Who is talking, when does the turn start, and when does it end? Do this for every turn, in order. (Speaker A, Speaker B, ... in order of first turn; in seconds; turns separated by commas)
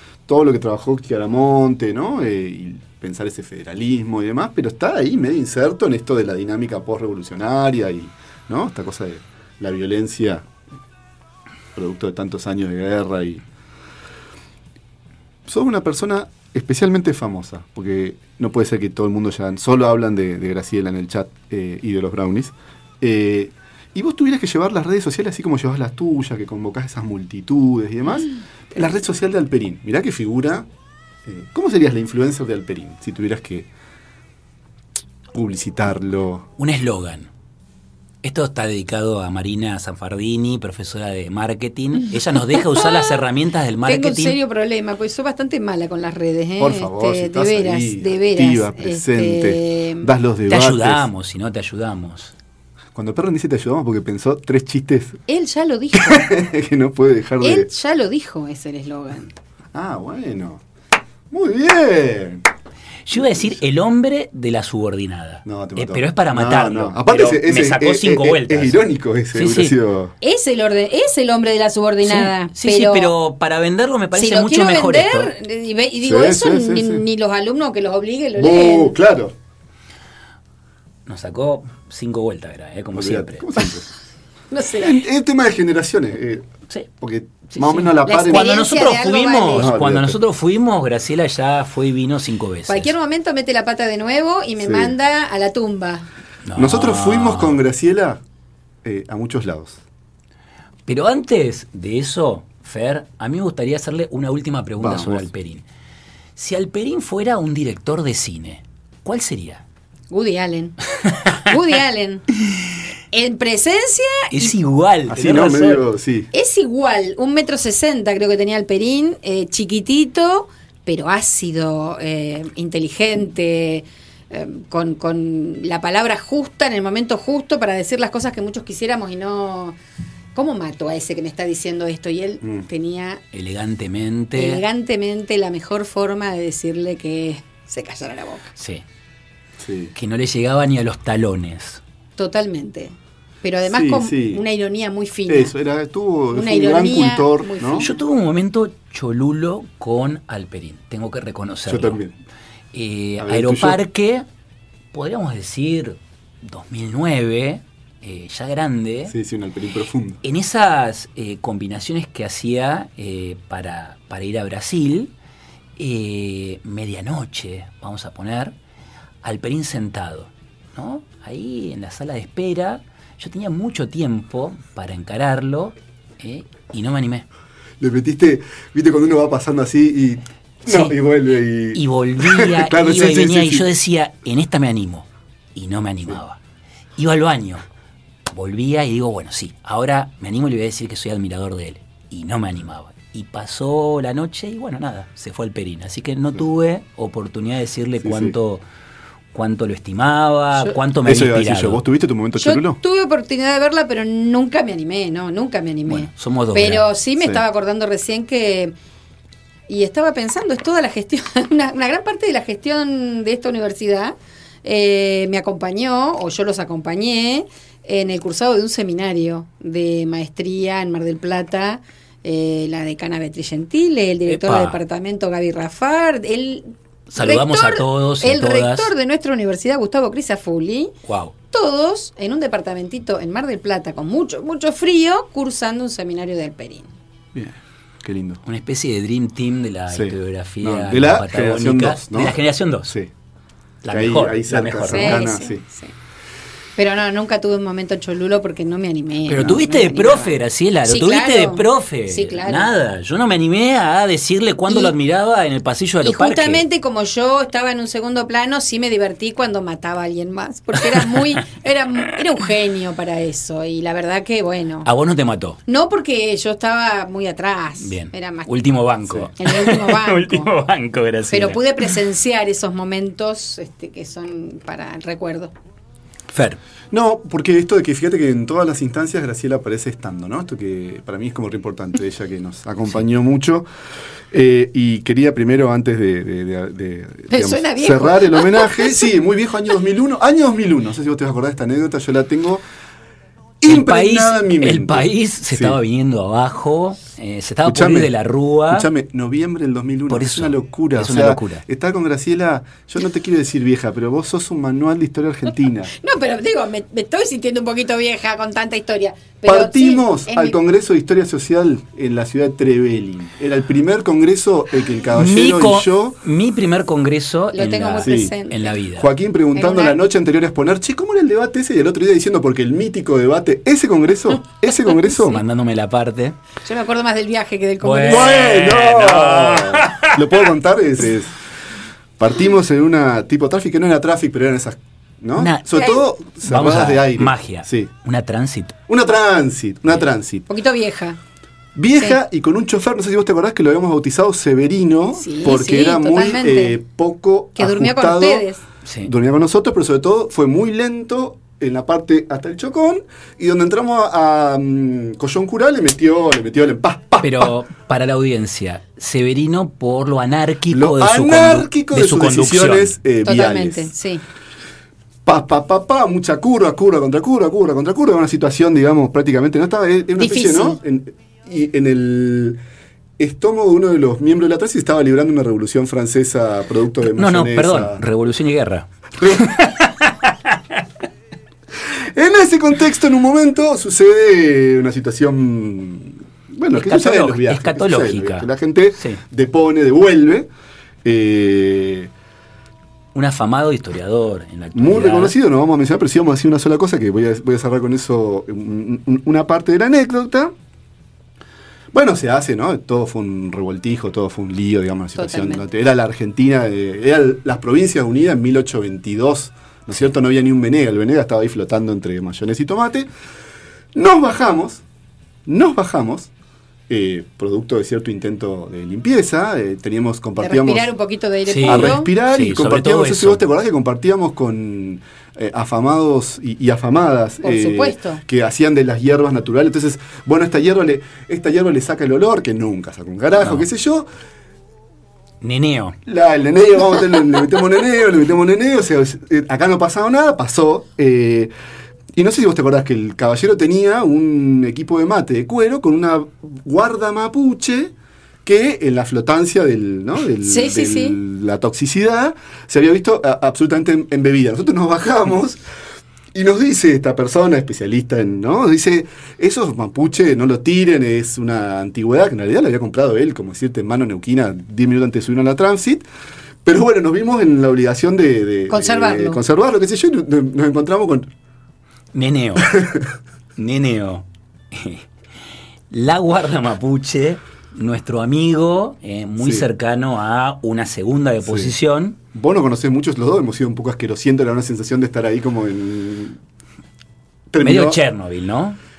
Speaker A: 0.3-10.4, Speaker A: 11.8-13.4, Speaker A: 15.5-30.7, Speaker A: 31.2-33.7, Speaker A: 35.3-36.5, Speaker B: 36.6-37.3, Speaker B: 38.2-44.4, Speaker C: 42.7-43.2, Speaker C: 43.8-50.1, Speaker A: 46.6-51.1, Speaker B: 50.5-52.3, Speaker A: 52.9-55.2, Speaker C: 55.3-56.3, Speaker A: 55.9-57.7, Speaker C: 57.4-59.3, Speaker A: 59.7-60.6, Speaker A: 61.3-62.4, Speaker B: 63.0-69.7, Speaker A: 65.4-70.1, Speaker C: 70.2-73.1, Speaker B: 72.0-75.3, Speaker C: 74.1-78.9, Speaker A: 76.0-77.0, Speaker A: 78.4-79.3, Speaker B: 81.0-83.5, Speaker A: 82.9-83.9, Speaker C: 84.5-85.0, Speaker A: 84.8-86.5, Speaker A: 87.0-88.5, Speaker B: 87.5-92.9, Speaker C: 88.0-89.7, Speaker A: 89.5-90.2, Speaker C: 92.7-96.1, Speaker A: 94.6-94.9, Speaker B: 96.4-97.6, Speaker A: 96.5-98.2, Speaker A: 98.8-99.8, Speaker B: 100.9-105.6, Speaker A: 104.8-105.2, Speaker B: 106.3-109.6, Speaker C: 110.1-110.8, Speaker B: 111.1-111.4, Speaker C: 111.3-112.3, Speaker C: 113.1-114.5, Speaker B: 114.3-115.8, Speaker A: 115.1-116.3, Speaker C: 116.3-129.8, Speaker C: 130.3-133.2, Speaker B: 133.3-134.6, Speaker C: 134.3-138.5, Speaker B: 138.6-138.8, Speaker A: 139.6-139.9, Speaker B: 139.9-141.8, Speaker C: 142.2-145.5, Speaker A: 143.7-144.4, Speaker A: 145.3-147.9, Speaker C: 146.3-147.9, Speaker B: 147.8-152.0, Speaker A: 151.7-152.2, Speaker B: 152.7-154.2, Speaker A: 153.2-153.8, Speaker B: 154.9-159.1, Speaker A: 159.1-160.2, Speaker B: 160.2-165.1, Speaker B: 165.8-168.5, Speaker B: 169.2-177.2, Speaker A: 177.8-183.7, Speaker B: 180.7-180.9, Speaker B: 181.7-186.4, Speaker B: 186.9-187.6, Speaker B: 188.3-198.6, Speaker A: 198.0-198.3, Speaker B: 199.3-201.8, Speaker A: 201.0-202.8, Speaker C: 202.3-208.7, Speaker B: 205.9-206.8, Speaker C: 209.7-230.9, Speaker B: 224.3-224.8, Speaker B: 227.1-228.9, Speaker B: 231.1-231.3, Speaker C: 231.5-236.9, Speaker A: 237.3-238.4, Speaker B: 238.4-242.9, Speaker A: 239.9-243.1, Speaker B: 243.8-245.3, Speaker A: 243.9-245.6, Speaker C: 244.8-245.9, Speaker C: 246.8-252.7, Speaker B: 249.2-256.6, Speaker C: 254.7-254.9, Speaker C: 256.0-264.9, Speaker B: 260.8-261.4, Speaker B: 264.8-265.6, Speaker C: 265.7-268.5, Speaker B: 267.8-271.9, Speaker C: 269.4-270.5, Speaker C: 271.3-275.5, Speaker B: 276.3-276.6, Speaker A: 276.9-283.6, Speaker A: 284.3-292.6, Speaker C: 287.3-289.1, Speaker A: 293.6-295.8, Speaker B: 293.7-298.9, Speaker A: 297.6-298.1, Speaker A: 298.7-305.9, Speaker B: 300.1-301.6, Speaker C: 305.9-310.6, Speaker A: 309.4-316.2, Speaker B: 315.1-319.1, Speaker C: 317.5-318.7, Speaker A: 318.0-318.3, Speaker A: 319.0-325.4, Speaker C: 319.5-320.0, Speaker B: 325.0-326.4, Speaker C: 326.6-328.4, Speaker B: 327.8-330.5, Speaker A: 328.1-331.3, Speaker A: 332.2-337.9, Speaker B: 335.4-338.8, Speaker A: 338.9-340.5, Speaker C: 340.5-341.2, Speaker A: 341.8-348.4, Speaker C: 345.1-346.8, Speaker C: 347.6-348.6, Speaker B: 348.8-349.1, Speaker A: 349.0-357.5, Speaker B: 357.2-362.9, Speaker A: 360.7-363.9, Speaker C: 363.2-364.2, Speaker A: 365.2-372.6, Speaker C: 370.2-370.8, Speaker A: 373.2-378.0, Speaker B: 377.1-380.6, Speaker A: 381.9-390.5, Speaker B: 386.7-389.2, Speaker A: 391.0-392.1, Speaker B: 393.1-395.3, Speaker A: 394.7-400.5, Speaker A: 401.9-413.1, Speaker C: 405.1-405.6, Speaker A: 413.9-414.8, Speaker A: 415.5-416.3, Speaker A: 416.9-420.9, Speaker C: 420.4-422.1, Speaker B: 421.5-423.4, Speaker A: 421.6-434.1, Speaker C: 427.4-428.2, Speaker B: 433.4-433.7, Speaker B: 435.4-436.0, Speaker A: 436.1-441.5, Speaker A: 442.1-447.9, Speaker A: 448.4-455.6, Speaker C: 450.4-451.2, Speaker A: 456.3-466.0, Speaker A: 466.6-471.3, Speaker C: 468.7-469.4, Speaker B: 472.1-472.8, Speaker A: 472.6-473.1, Speaker B: 473.6-475.1, Speaker B: 475.9-482.2, Speaker A: 479.4-479.6, Speaker A: 481.4-481.7, Speaker A: 482.3-486.4, Speaker A: 487.5-488.0, Speaker B: 487.6-488.8